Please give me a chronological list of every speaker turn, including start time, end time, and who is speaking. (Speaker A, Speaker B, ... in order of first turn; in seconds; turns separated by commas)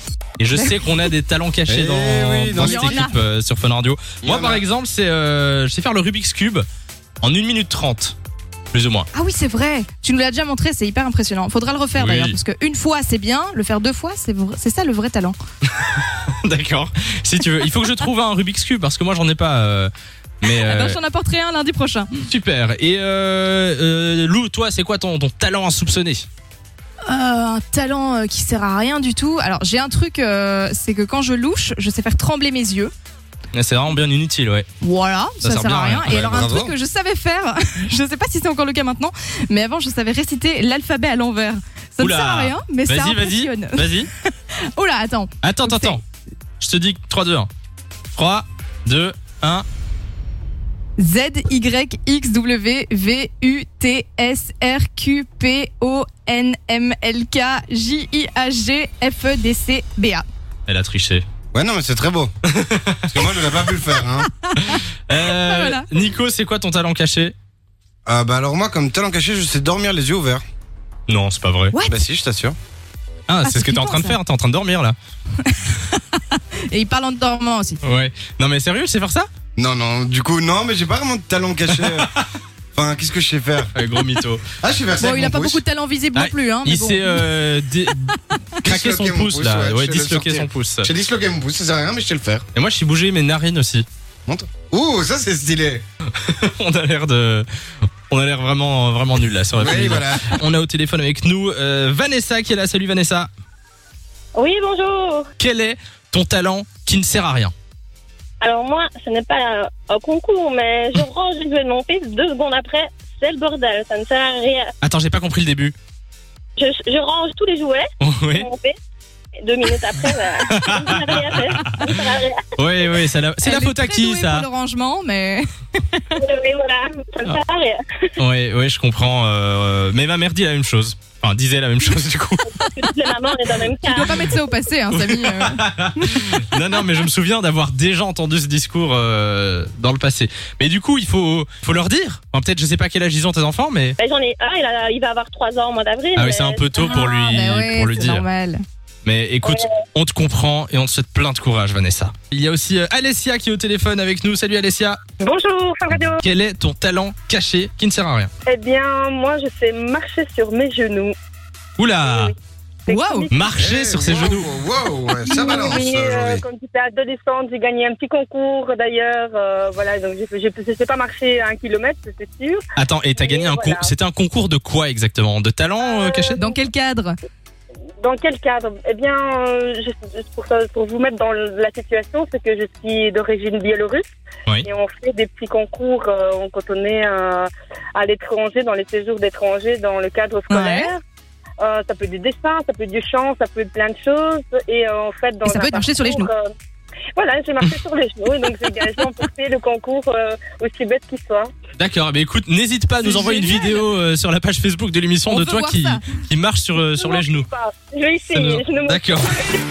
Speaker A: 0.4-6.6, Speaker B: 0.5-1.1, Speaker C: 1.7-3.0, Speaker B: 2.6-3.2, Speaker C: 4.2-4.6, Speaker A: 7.2-8.2, Speaker A: 8.7-9.1, Speaker B: 9.1-15.4, Speaker A: 11.9-12.4, Speaker A: 15.7-19.9, Speaker B: 20.4-22.2, Speaker A: 20.4-21.0, Speaker A: 22.3-26.3, Speaker B: 27.0-32.9, Speaker A: 33.5-34.7, Speaker B: 34.8-46.0, Speaker A: 35.4-36.1, Speaker C: 36.1-36.7, Speaker A: 42.0-44.1, Speaker A: 45.4-46.0, Speaker A: 46.6-47.5, Speaker A: 48.1-49.6, Speaker B: 51.0-60.2, Speaker A: 60.7-61.2, Speaker C: 61.5-62.3, Speaker A: 62.5-63.1, Speaker C: 63.1-64.3, Speaker B: 64.3-65.9, Speaker A: 64.6-67.3, Speaker C: 68.0-70.4, Speaker A: 71.1-71.8, Speaker C: 71.9-72.5, Speaker A: 73.3-75.0, Speaker B: 73.4-74.2, Speaker B: 75.4-77.8, Speaker A: 77.8-79.3, Speaker C: 79.5-82.1, Speaker A: 81.7-82.2, Speaker C: 82.7-83.7, Speaker A: 83.7-84.4, Speaker C: 84.6-85.6, Speaker B: 85.0-87.3, Speaker A: 86.1-90.9, Speaker C: 88.6-92.4, Speaker A: 92.5-93.8, Speaker C: 94.3-95.8, Speaker A: 96.2-97.5, Speaker A: 98.1-103.3, Speaker C: 99.6-100.4, Speaker D: 104.3-105.3, Speaker A: 105.4-107.5, Speaker D: 108.4-114.7, Speaker A: 114.8-115.7, Speaker D: 116.6-118.7, Speaker A: 118.0-118.5, Speaker D: 119.4-122.4, Speaker A: 120.5-121.7, Speaker A: 122.5-124.5, Speaker B: 123.4-126.2, Speaker D: 126.1-127.8, Speaker A: 128.2-132.5, Speaker D: 132.5-134.2, Speaker B: 133.8-136.6, Speaker A: 134.9-144.0, Speaker D: 144.0-147.3, Speaker A: 146.2-148.2, Speaker B: 146.8-148.6, Speaker A: 149.0-155.0, Speaker E: 155.2-156.2, Speaker A: 155.9-158.3, Speaker E: 158.4-161.1, Speaker A: 161.8-162.3, Speaker E: 162.0-162.3, Speaker B: 162.9-163.3, Speaker E: 162.9-163.5, Speaker A: 163.3-164.5, Speaker C: 163.6-166.4, Speaker B: 165.3-165.8, Speaker E: 165.3-172.6, Speaker A: 172.8-176.4, Speaker E: 173.2-173.9, Speaker E: 175.8-176.5, Speaker B: 176.3-177.1, Speaker E: 178.0-184.0, Speaker E: 184.6-191.0, Speaker B: 190.5-190.9, Speaker E: 191.6-196.5, Speaker B: 195.4-196.3, Speaker E: 197.2-201.5, Speaker A: 201.8-207.5, Speaker B: 203.0-203.8, Speaker B: 205.3-206.1, Speaker E: 206.8-209.6, Speaker A: 208.3-209.3